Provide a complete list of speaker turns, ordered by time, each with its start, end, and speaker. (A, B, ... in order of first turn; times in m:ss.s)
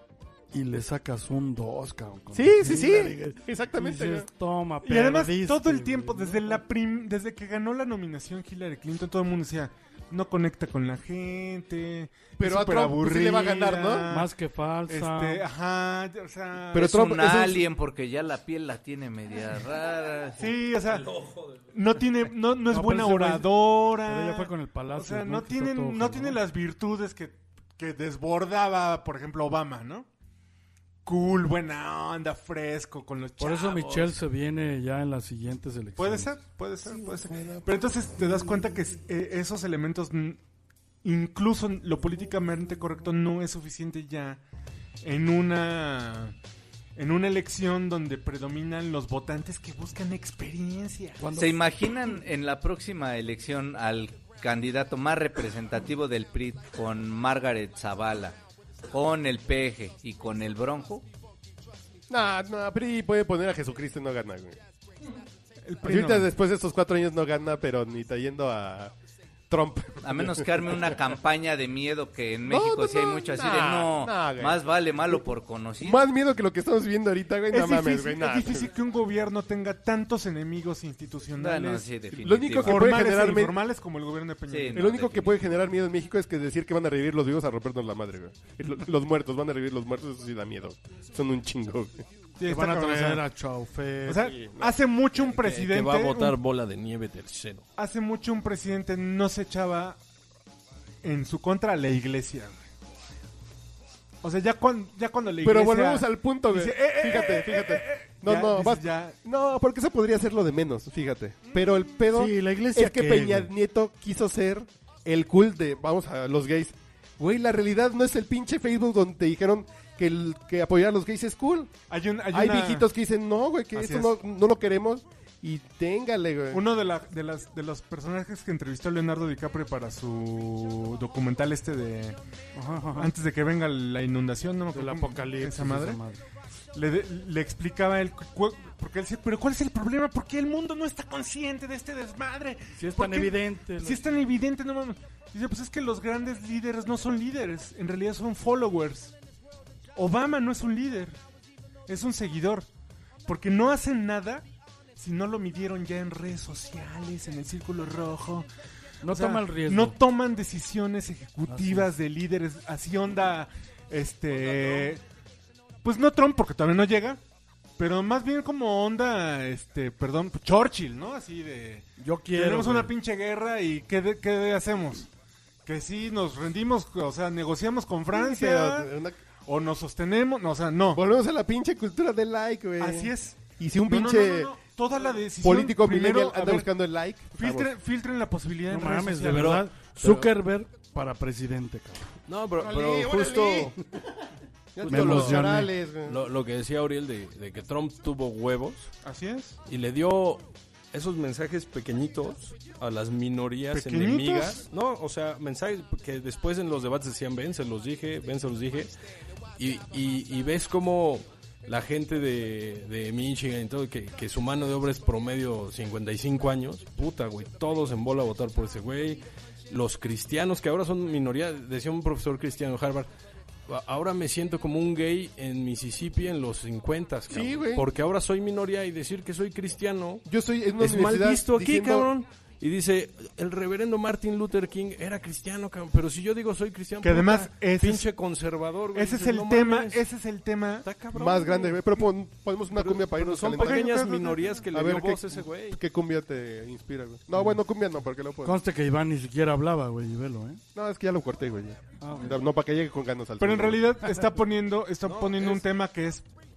0:00.5-0:06.6 A
0:02.3-0:04.3 B
0:04.8-0:14.3 C
0:12.4-0:14.1 B
0:14.1-0:15.5 A
0:14.9-0:16.8 C
0:16.7-0:17.6 B
0:16.8-0:20.5 D
0:20.4-0:21.2 C
0:21.7-0:30.1 C
0:22.7-0:26.4 A
0:31.1-0:34.1 C
0:33.4-0:36.3 A
0:36.0-0:40.4 C
0:41.0-0:44.4 C
0:45.0-0:46.4 C
0:47.0-0:51.2 C
0:51.2-0:51.6 A
0:51.4-0:58.4 D
0:58.9-1:01.1 D
1:02.1-1:04.6 B
1:05.6-1:06.3 C
1:05.8-1:08.9 B
1:09.5-1:10.8 B
1:10.0-1:16.0 D
1:12.4-1:15.2 B
1:15.8-1:18.7 B
1:17.5-1:21.8 C
1:21.4-1:23.0 D
1:22.2-1:23.6 B
1:22.6-1:24.9 C
1:24.5-1:25.4 D
1:24.8-1:32.1 B
1:32.4-1:33.2 C
1:32.4-1:34.3 A
1:34.1-1:36.4 C
1:34.2-1:34.8 B
1:35.2-1:37.7 E
1:37.8-1:40.0 C
1:41.0-1:42.7 C
1:44.2-1:49.1 C
1:45.4-2:01.7 B
1:52.1-1:53.5 A
2:01.9-2:02.9 C
2:02.3-2:06.6 B
2:03.8-2:04.2 C
2:06.5-2:12.2 C
2:12.6-2:13.1 A
2:13.0-2:16.0 C
2:14.7-2:16.2 A
2:16.7-2:29.1 C
2:22.8-2:24.0 A
2:30.0-2:31.2 C
2:31.9-2:32.7 C
2:33.3-2:34.5 C
2:35.0-2:38.5 C
2:39.0-2:40.0 A
2:39.1-2:45.0 C
2:41.5-2:41.9 A
2:45.8-2:47.2 C
2:47.8-2:55.1 C
2:52.0-2:52.9 A
2:55.6-2:58.9 C
2:58.1-2:59.2 B
2:59.5-3:01.0 C
3:00.9-3:04.5 B
3:02.8-3:06.7 C
3:05.4-3:07.7 B
3:07.4-3:09.6 C
3:08.7-3:12.1 A
3:09.4-3:10.3 E
3:12.3-3:13.8 E
3:12.6-3:13.8 B
3:14.8-3:16.2 B
3:14.8-3:19.0 E
3:14.9-3:15.7 A
3:19.0-3:19.6 C
3:19.7-3:29.0 E
3:23.7-3:24.6 C
3:29.6-3:43.1 E
3:43.7-3:50.2 E
3:47.3-3:47.9 B
3:50.2-3:52.1 B
3:50.8-4:00.1 E
3:57.0-3:58.1 C
3:58.9-4:00.9 C
4:00.8-4:01.9 E
4:01.1-4:04.1 B
4:02.7-4:05.8 E
4:03.5-4:04.5 C
4:04.7-4:08.6 B
4:08.4-4:10.6 A
4:10.8-4:13.9 B
4:12.0-4:12.4 A
4:13.4-4:16.2 C
4:15.0-4:15.7 E